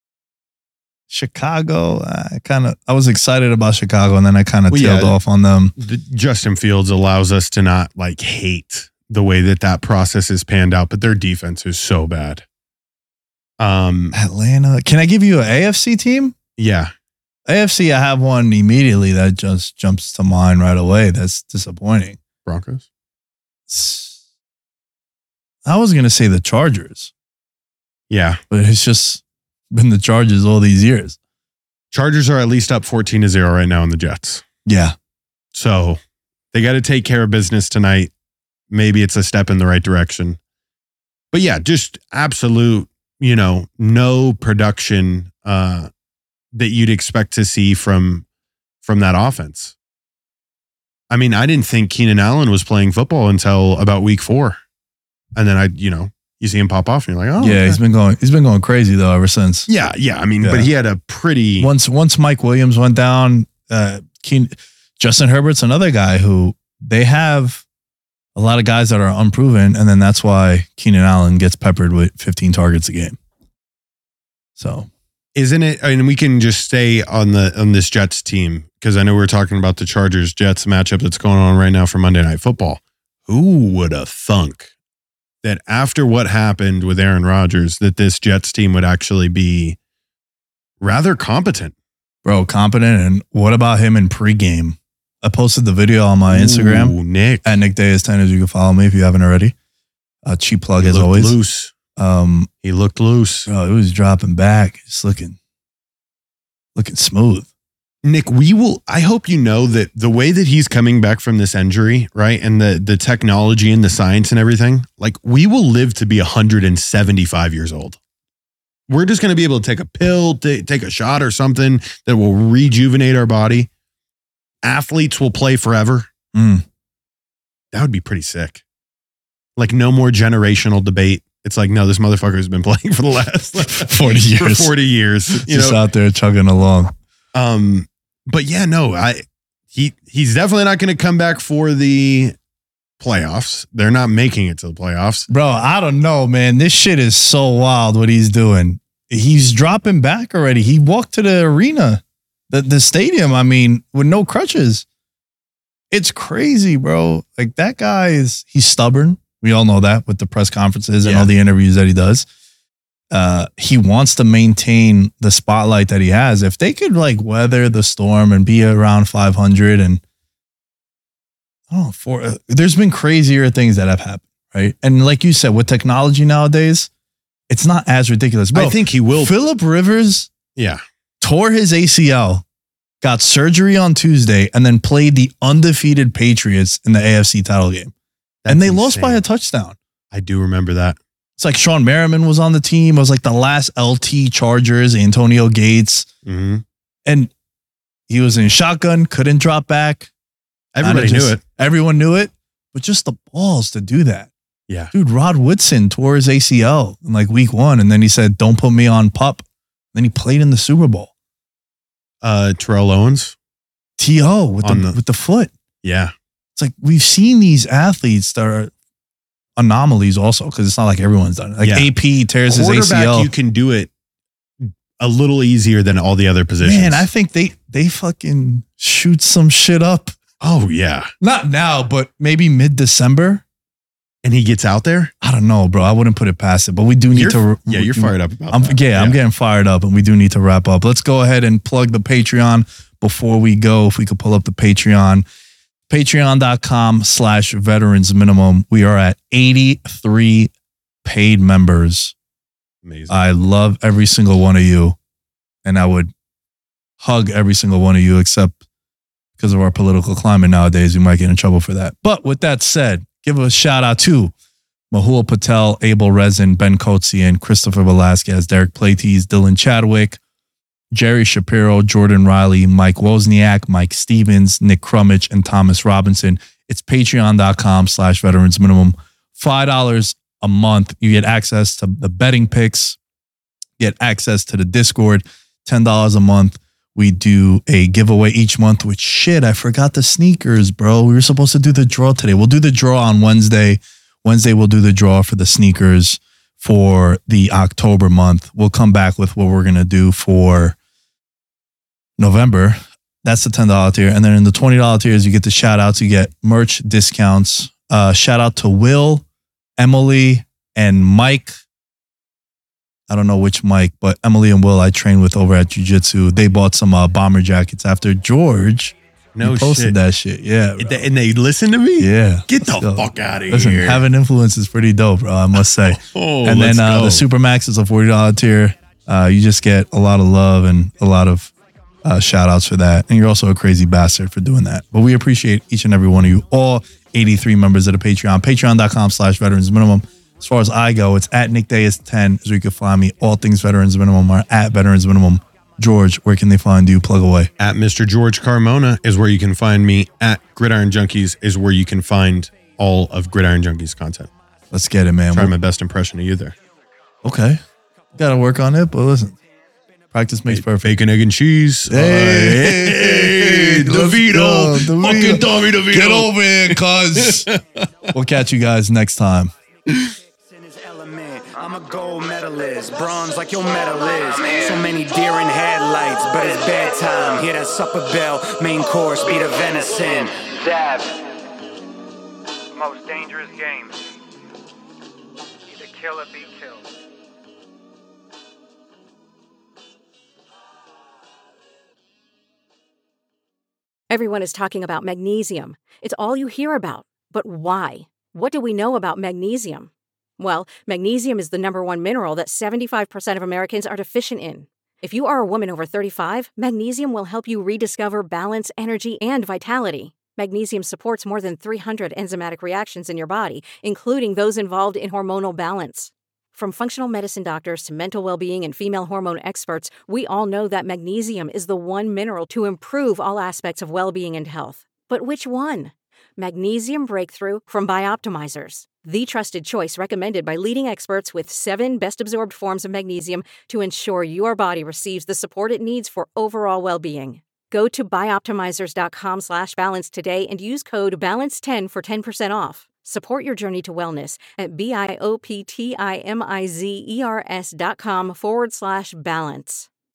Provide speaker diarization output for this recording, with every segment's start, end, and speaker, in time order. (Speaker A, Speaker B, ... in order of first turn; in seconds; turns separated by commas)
Speaker A: 1.1-5.7, Speaker B: 4.7-5.2, Speaker B: 5.8-12.4, Speaker B: 13.6-14.2, Speaker A: 14.1-16.4, Speaker B: 16.6-16.9, Speaker A: 17.5-22.2, Speaker B: 22.5-22.9, Speaker A: 23.7-24.2, Speaker A: 25.7-27.1, Speaker B: 28.1-28.4, Speaker A: 28.5-31.2, Speaker B: 31.9-34.5, Speaker A: 34.7-35.0, Speaker B: 35.5-36.0, Speaker B: 36.5-38.1, Speaker B: 38.7-40.4, Speaker B: 41.3-45.9, Speaker B: 46.5-48.2, Speaker B: 48.8-49.8, Speaker B: 51.1-54.6, Speaker B: 55.4-57.8, Speaker A: 57.4-59.7, Speaker B: 59.7-61.7, Speaker A: 60.4-60.7, Speaker A: 61.6-67.6, Speaker A: 68.3-73.2, Speaker A: 74.6-74.9, Speaker B: 75.4-84.7, Speaker B: 85.4-89.8, Speaker B: 90.8-91.7, Speaker A: 92.2-99.5, Speaker B: 96.3-97.6, Speaker A: 100.2-101.3, Speaker B: 100.8-101.7, Speaker A: 102.0-102.5, Speaker B: 102.6-103.5, Speaker A: 103.5-105.4, Speaker A: 106.8-107.5, Speaker B: 108.0-118.0, Speaker B: 118.9-123.7, Speaker B: 124.6-126.1, Speaker A: 126.3-126.7, Speaker B: 127.7-128.6, Speaker B: 129.6-135.8, Speaker A: 133.6-134.7, Speaker A: 135.3-136.9, Speaker B: 137.3-142.3, Speaker B: 143.0-145.3, Speaker A: 145.3-154.8, Speaker A: 155.9-162.3, Speaker B: 161.0-161.3, Speaker A: 163.1-170.0, Speaker A: 171.7-176.9, Speaker A: 177.5-180.3, Speaker B: 178.5-179.3, Speaker A: 181.2-182.4, Speaker A: 183.0-187.9, Speaker B: 188.4-189.2, Speaker A: 188.5-189.8, Speaker B: 190.1-191.0, Speaker A: 191.4-196.1, Speaker B: 196.3-196.7, Speaker A: 197.1-197.3, Speaker A: 198.1-200.1, Speaker B: 200.8-201.4, Speaker A: 200.8-204.3, Speaker A: 204.9-211.1, Speaker B: 212.2-213.4, Speaker A: 214.0-215.5, Speaker B: 214.6-215.0, Speaker B: 215.8-216.1, Speaker A: 216.6-218.7, Speaker A: 219.6-223.3, Speaker B: 221.6-221.9, Speaker B: 222.5-223.9, Speaker B: 224.6-227.1, Speaker A: 226.6-230.2, Speaker B: 230.4-231.1, Speaker A: 231.2-233.4, Speaker B: 234.2-235.1, Speaker A: 235.2-245.2, Speaker B: 237.1-239.2, Speaker A: 245.9-250.5, Speaker A: 251.0-252.2, Speaker B: 252.8-253.2, Speaker A: 253.1-255.0, Speaker A: 255.7-256.1, Speaker A: 257.0-258.6, Speaker A: 259.4-264.3, Speaker A: 264.9-270.2, Speaker A: 270.9-283.0, Speaker A: 283.8-300.8, Speaker A: 302.2-309.2, Speaker A: 309.8-311.6, Speaker A: 313.1-321.1, Speaker B: 319.4-320.0, Speaker B: 320.8-324.1, Speaker A: 322.0-331.5, Speaker B: 325.6-327.2, Speaker A: 332.0-347.5, Speaker B: 347.6-354.3, Speaker A: 354.7-355.5, Speaker B: 355.3-356.6, Speaker A: 357.2-357.6, Speaker A: 358.1-359.4, Speaker A: 360.1-361.0, Speaker B: 360.5-367.9, Speaker A: 361.9-367.5, Speaker A: 368.1-369.5, Speaker C: 370.6-381.2, Speaker C: 382.8-383.9, Speaker C: 385.7-386.8, Speaker D: 394.1-449.9